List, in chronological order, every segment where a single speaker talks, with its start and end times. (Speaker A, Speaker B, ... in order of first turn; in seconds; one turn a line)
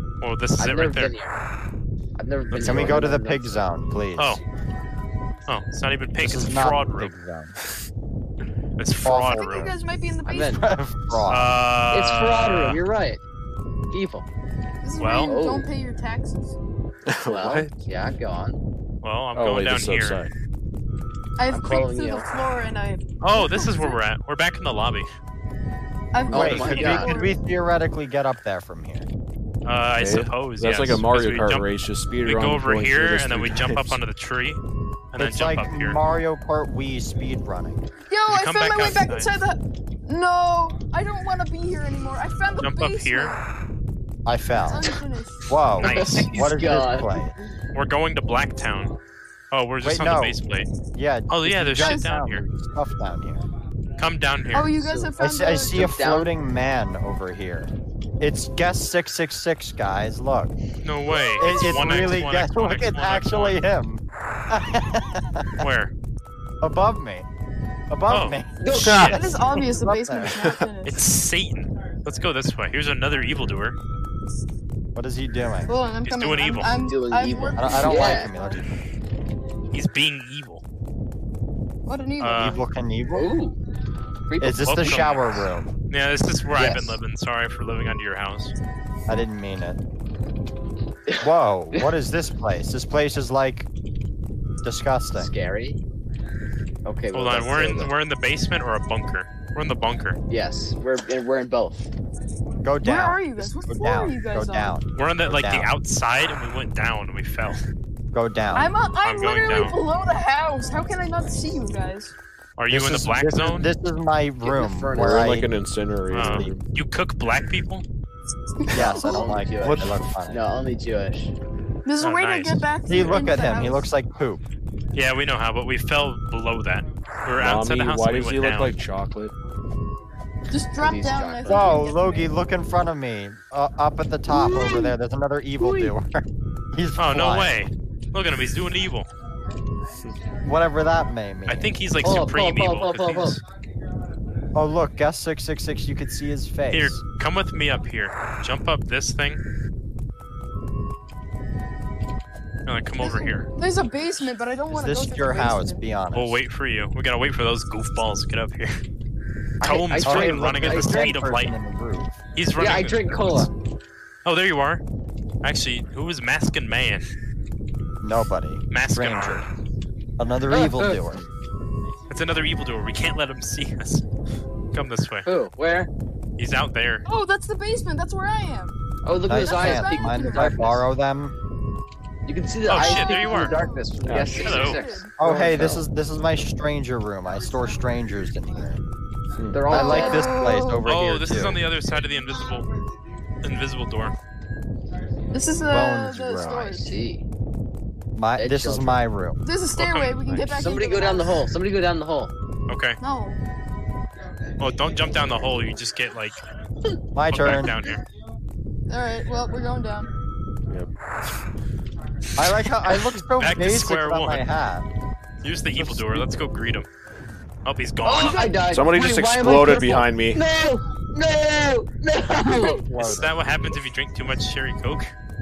Speaker A: 0.2-1.1
Speaker B: 0.6-1.4
Speaker B: 2.2-3.7
Speaker C: 2.5-2.8
Speaker D: 2.6-4.4
Speaker A: 4.2-4.4
Speaker A: 5.5-7.1
Speaker D: 6.2-7.6
Speaker A: 8.8-9.8
Speaker D: 9.1-9.6
Speaker E: 9.3-10.7
Speaker B: 10.2-10.6
Speaker D: 10.5-11.5
Speaker A: 11.3-12.8
Speaker B: 11.9-13.2
Speaker B: 13.9-14.3
Speaker E: 14.8-16.6
Speaker A: 15.0-15.4
Speaker B: 15.2-15.7
Speaker C: 17.1-17.7
Speaker B: 17.2-18.6
Speaker A: 19.0-20.2
Speaker C: 19.4-20.3
Speaker E: 21.4-24.0
Speaker B: 21.5-22.3
Speaker A: 23.2-25.1
Speaker E: 26.1-27.4
Speaker B: 26.3-27.2
Speaker D: 26.3-29.1
Speaker A: 29.6-31.7
Speaker C: 30.0-34.0
Speaker A: 32.2-34.6
Speaker A: 35.1-36.0
Speaker D: 35.2-37.8
Speaker E: 38.1-43.4
Speaker A: 38.3-39.4
Speaker A: 42.6-43.4
Speaker D: 44.2-47.4
Speaker E: 44.7-45.5
Speaker A: 45.8-46.3
Speaker B: 45.8-47.3
Speaker A: 47.8-48.9
Speaker A: 49.5-50.7
Speaker D: 49.8-50.4
Speaker D: 50.9-53.4
Speaker A: 51.3-52.5
Speaker E: 51.8-52.1
Speaker A: 54.0-54.8
Speaker E: 54.5-55.9
Speaker B: 54.8-55.2
Speaker D: 55.2-60.5
Speaker B: 55.7-56.3
Speaker A: 60.8-63.6
Speaker E: 61.1-62.1
Speaker D: 61.4-65.7
Speaker A: 65.6-65.9
Speaker D: 66.6-67.3
Speaker D: 67.9-70.5
Speaker A: 68.1-69.2
Speaker B: 68.6-69.2
Speaker E: 69.0-71.0
Speaker A: 70.8-73.8
Speaker D: 75.0-75.7
Speaker E: 75.7-78.6
Speaker A: 76.0-76.8
Speaker B: 76.8-78.3
Speaker D: 77.6-78.7
Speaker A: 79.7-80.6
Speaker E: 81.9-82.6
Speaker A: 82.2-82.6
Speaker D: 82.3-83.3
Speaker B: 83.1-83.6
Speaker B: 84.3-85.0
Speaker D: 84.4-85.7
Speaker A: 84.6-88.5
Speaker B: 86.6-87.0
Speaker D: 89.1-89.8
Speaker B: 91.1-91.9
Speaker D: 91.2-93.7
Speaker D: 94.6-95.3
Speaker B: 95.2-95.8
Speaker B: 96.8-97.9
Speaker A: 97.1-100.2
Speaker B: 100.3-101.9
Speaker D: 102.6-105.7
Speaker E: 102.8-104.8
Speaker A: 105.0-107.6
Speaker D: 108.1-108.7
Speaker E: 108.5-112.1
Speaker A: 109.0-109.8
Speaker A: 112.6-113.7
Speaker D: 112.7-115.5
Speaker B: 114.4-115.4
Speaker C: 115.0-116.6
Speaker A: 116.1-117.8
Speaker D: 116.3-116.5
Speaker E: 118.6-119.3
Speaker D: 118.7-120.4
Speaker B: 118.7-121.3
Speaker E: 121.8-123.9
Speaker A: 122.0-122.7
Speaker D: 122.9-124.4
Speaker A: 124.9-128.7
Speaker C: 127.4-129.3
Speaker E: 130.5-132.3
Speaker B: 130.8-131.7
Speaker D: 131.5-137.7
Speaker B: 134.3-134.9
Speaker E: 134.4-134.9
Speaker B: 135.6-135.9
Speaker A: 137.0-139.1
Speaker D: 140.4-141.7
Speaker A: 141.5-143.4
Speaker B: 142.0-143.4
Speaker D: 144.6-147.0
Speaker A: 146.7-149.4
Speaker A: 152.7-153.5
Speaker E: 153.0-155.8
Speaker D: 154.7-156.4
Speaker A: 156.1-158.8
Speaker B: 159.6-161.2
Speaker A: 159.6-161.5
Speaker D: 160.0-162.2
Speaker A: 162.4-163.5
Speaker B: 162.6-163.5
Speaker A: 164.2-164.8
Speaker A: 165.4-167.0
Speaker D: 168.0-169.5
Speaker A: 168.7-169.5
Speaker D: 170.2-171.2
Speaker B: 170.5-171.0
Speaker A: 172.1-174.0
Speaker A: 174.7-175.3
Speaker B: 175.3-175.9
Speaker A: 176.4-177.1
Speaker E: 177.1-178.8
Speaker B: 179.0-180.8
Speaker D: 179.3-181.3
Speaker E: 179.3-180.6
Speaker B: 182.3-185.8
Speaker A: 182.7-183.6
Speaker E: 182.7-185.2
Speaker C: 184.0-184.5
Speaker A: 184.4-184.8
Speaker D: 185.2-188.8
Speaker C: 185.2-185.8
Speaker C: 189.4-189.7
Speaker B: 189.5-190.3
Speaker E: 189.7-190.9
Speaker D: 189.7-191.6
Speaker A: 190.9-192.7
Speaker A: 193.4-194.2
Speaker E: 195.3-196.9
Speaker D: 195.6-196.6
Speaker B: 196.5-197.2
Speaker D: 198.2-199.4
Speaker B: 198.4-199.0
Speaker E: 199.4-201.4
Speaker A: 199.8-200.5
Speaker B: 200.4-202.3
Speaker A: 202.7-203.0
Speaker E: 203.0-203.4
Speaker A: 204.6-206.4
Speaker D: 207.2-207.8
Speaker A: 207.3-208.0
Speaker E: 208.9-210.1
Speaker D: 212.4-214.9
Speaker A: 212.4-214.4
Speaker A: 215.4-216.9
Speaker A: 217.7-218.5
Speaker B: 218.1-222.8
Speaker E: 218.2-218.7
Speaker C: 218.7-220.4
Speaker E: 222.4-222.8
Speaker D: 222.7-223.3
Speaker A: 223.0-225.2